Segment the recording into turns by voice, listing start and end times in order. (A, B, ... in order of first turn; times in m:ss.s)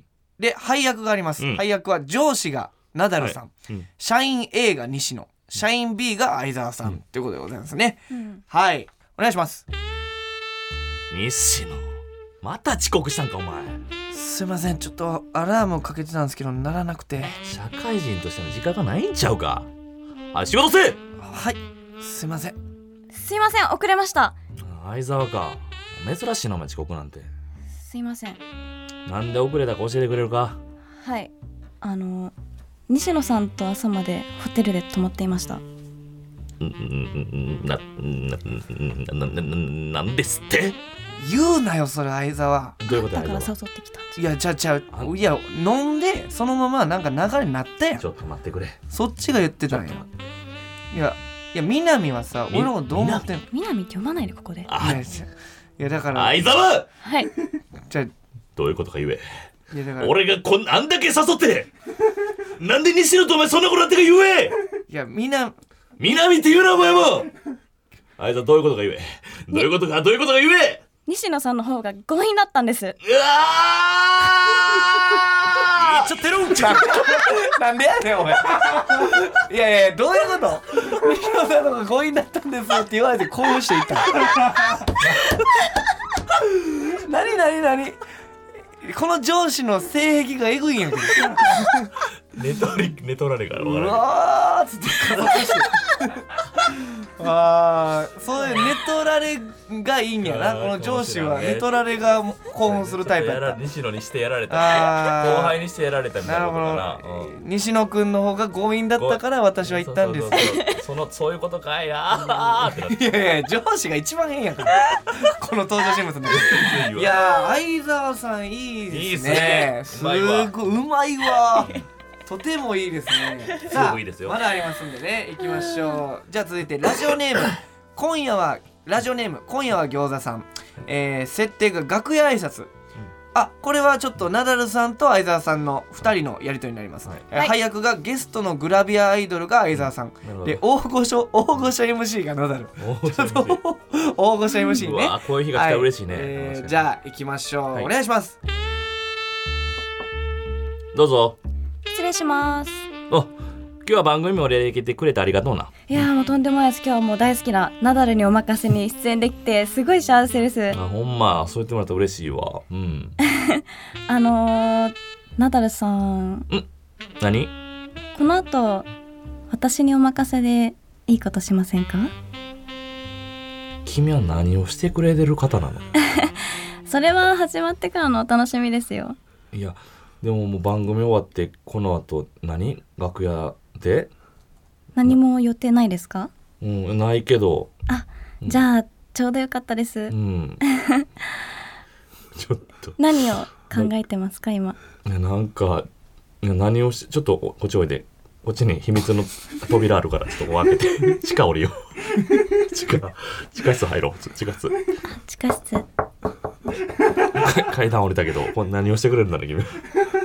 0:00.4-0:08.0 A
0:01.4-0:01.6 B
0:03.2-0:03.9 B
0:08.1-0:08.4 C
0:08.5-0:09.6 A
0:11.1-0:11.9 B
0:12.4-0:13.8 B
0:14.1-0:17.4 A
0:17.4-0:19.7 B
0:20.3-0:21.0 B
0:21.2-0:22.6 A
0:23.1-0:24.4 C
0:24.6-0:27.3 B
0:27.8-0:28.4 C
0:29.1-0:30.6 B
0:31.0-0:32.3 C
0:32.9-0:35.6 C
0:36.6-0:40.8 B
0:41.2-0:42.8 A
0:42.8-0:43.5 B
0:42.9-0:44.2 C
0:44.2-0:48.0 A
0:48.0-0:48.8 B
0:48.9-0:50.0 A
0:49.7-0:50.0 B
0:50.9-0:53.4 A
0:52.5-0:53.3 B
0:53.5-0:54.7 C
0:54.7-0:55.1 B
0:54.8-0:55.3 A
0:55.8-0:56.4 A
0:56.1-0:56.9 B
0:57.0-0:57.3 C
0:58.6-0:59.4 B
0:59.7-1:00.2 A
1:00.0-1:01.7 B
1:02.6-1:04.6 B
1:04.9-1:05.6 A
1:06.0-1:07.3 B
1:08.2-1:10.8 B
1:11.1-1:13.0 C
1:13.0-1:17.3 B
1:16.3-1:24.8 A
1:25.0-1:25.4 B
1:26.4-1:28.0 A
1:28.8-1:31.9 A
1:32.4-1:34.1 B
1:33.6-1:43.6 A
1:35.0-1:35.7 B
1:40.2-1:41.7 B
1:42.6-1:47.3 B
1:44.5-1:45.6 A
1:46.2-1:50.5 A
1:49.0-1:53.1 B
1:50.4-1:50.7 C
1:52.1-2:12.7 A
1:56.3-1:57.2 B
1:58.9-2:00.5 B
2:03.6-2:04.4 B
2:05.6-2:06.0 C
2:13.3-2:28.4 A
2:19.8-2:20.6 B
2:22.8-2:23.6 B
2:24.7-2:26.8 B
2:30.9-2:31.4 B
2:31.9-2:32.8 C
2:33.1-2:35.7 B
2:35.9-2:40.8 C
2:40.7-2:43.2 B
2:43.2-2:46.5 C
2:47.2-2:47.5 B
2:48.2-2:48.9 C
2:49.5-2:52.1 C
2:53.8-2:55.9 B
2:56.0-2:59.2 C
2:59.5-3:04.1 B
3:05.0-3:06.3 C
3:06.6-3:07.7 B
3:07.9-3:11.2 C
3:10.1-3:10.6 B
3:12.4-3:13.0 B
3:13.0-3:14.8 C
3:15.0-3:15.9 B
3:16.4-3:24.8 B
3:25.1-3:25.8 C
3:27.3-3:29.8 B